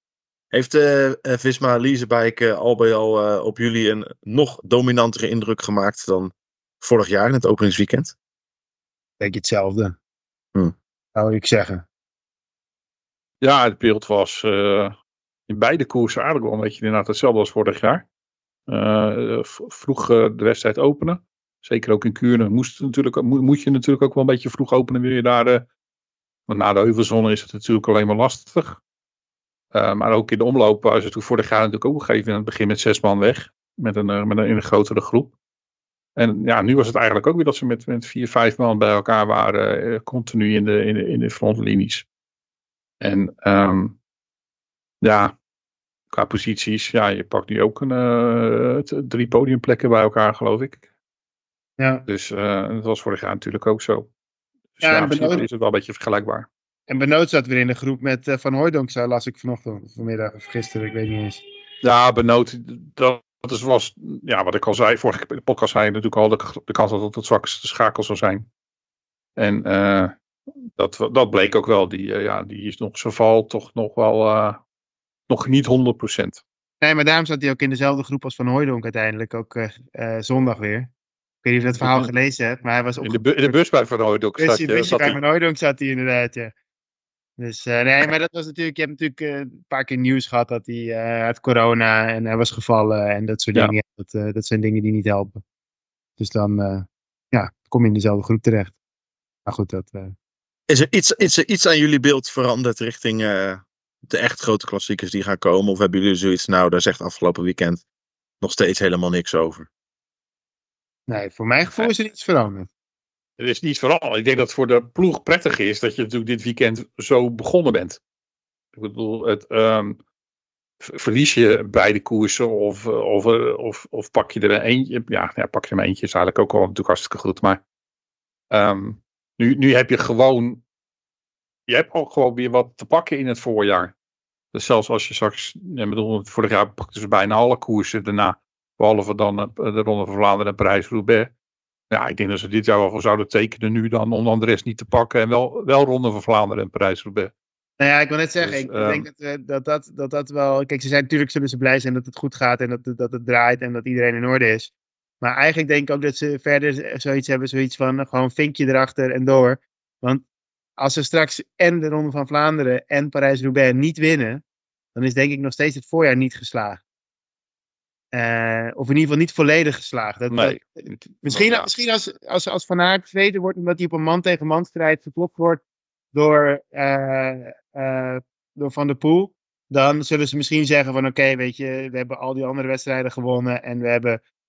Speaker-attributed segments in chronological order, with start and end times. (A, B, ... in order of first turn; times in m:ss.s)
0:00.5-0:08.2 A
0:09.2-0:10.0 B
0:11.2-0:11.8 B
0:13.4-0:15.0 C
0:15.5-0:18.0 C
0:18.7-0:25.7 C
0:26.5-0:28.8 C
0:29.7-0:35.3 C
0:36.2-0:42.1 C
0:43.0-0:44.0 C
0:45.0-0:45.4 C
0:46.1-0:50.8 C
0:51.8-0:52.1 B
0:52.1-0:54.1 C
0:54.8-0:56.5 C
0:54.8-0:55.5 B
0:56.9-1:01.4 B
1:01.8-1:08.5 C
1:09.4-1:10.2 C
1:10.8-1:14.6 C
1:15.3-1:16.4 C
1:16.8-1:20.9 B
1:21.4-1:23.6 B
1:21.8-1:22.1 C
1:23.0-1:25.2 C
1:24.4-1:26.5 B
1:27.4-1:35.4 B
1:36.2-1:38.8 B
1:39.5-1:40.2 B
1:40.7-1:47.8 A
1:48.4-1:49.7 A
1:51.1-1:52.7 B
1:53.4-1:58.0 C
1:58.8-2:00.0 C
2:00.8-2:07.6 C
2:08.5-2:10.6 C
2:11.7-2:13.9 C
2:14.5-2:21.3 C
2:21.9-2:27.3 C
2:27.8-2:40.2 B
2:28.4-2:29.1 C
2:40.8-2:44.4 B
2:45.0-2:46.8 B
2:48.1-2:55.6 B
2:50.3-2:51.7 C
2:56.1-3:04.2 B